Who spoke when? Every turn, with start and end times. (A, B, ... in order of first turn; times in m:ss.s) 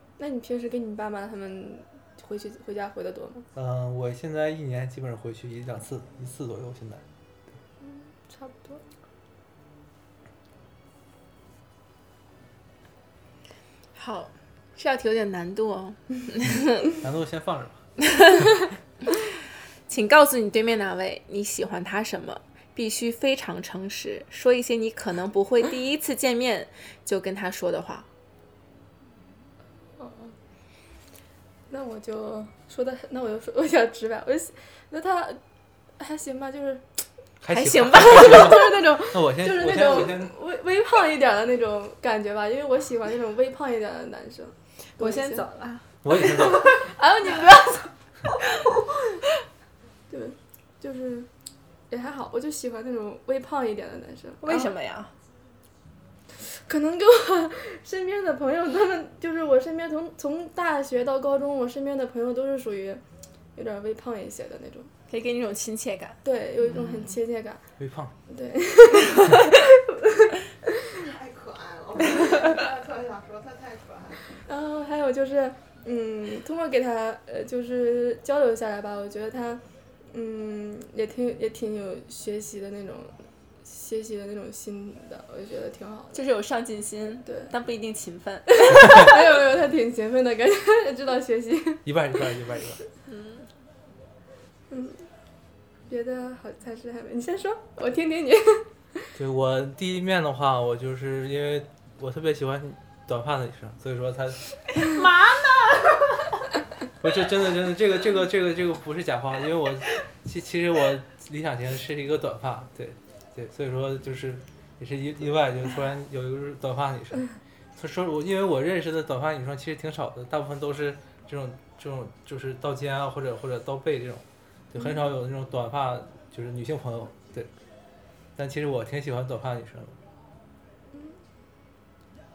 0:00.2-0:03.5 A
0:03.5-0:07.0 B
0:07.8-0:08.8 A
0:13.9-0:16.9 C
0:17.0-0:17.8 B
0:18.1-0:18.4 C
0:19.9-0:28.1 C
0:30.0-0:30.3 A
0:31.7-0:35.4 A
0:36.0-0:37.0 A
0:37.4-0:40.3 B
0:37.5-0:39.1 C
0:38.2-0:45.5 A
0:45.0-0:45.8 C
0:46.0-0:46.8 B
0:46.1-0:47.9 A
0:50.1-0:51.3 A
0:51.9-0:54.7 A
0:54.4-0:55.1 C
0:56.3-1:03.0 A
1:03.5-1:04.9 A
1:05.1-1:06.2 C
1:06.2-1:07.6 A
1:06.8-1:07.1 C
1:07.8-1:08.1 B
1:08.3-1:11.0 A
1:10.9-1:14.4 D
1:14.3-1:26.2 A
1:26.1-1:29.2 C
1:27.2-1:27.5 A
1:28.5-1:32.2 A
1:31.8-1:32.8 B
1:33.0-1:33.5 C
1:34.7-1:35.1 A
1:35.9-1:39.1 A
1:39.1-1:44.4 B
1:44.8-1:45.6 C
1:44.9-1:45.3 D
1:47.0-2:07.5 B
2:08.4-2:10.0 B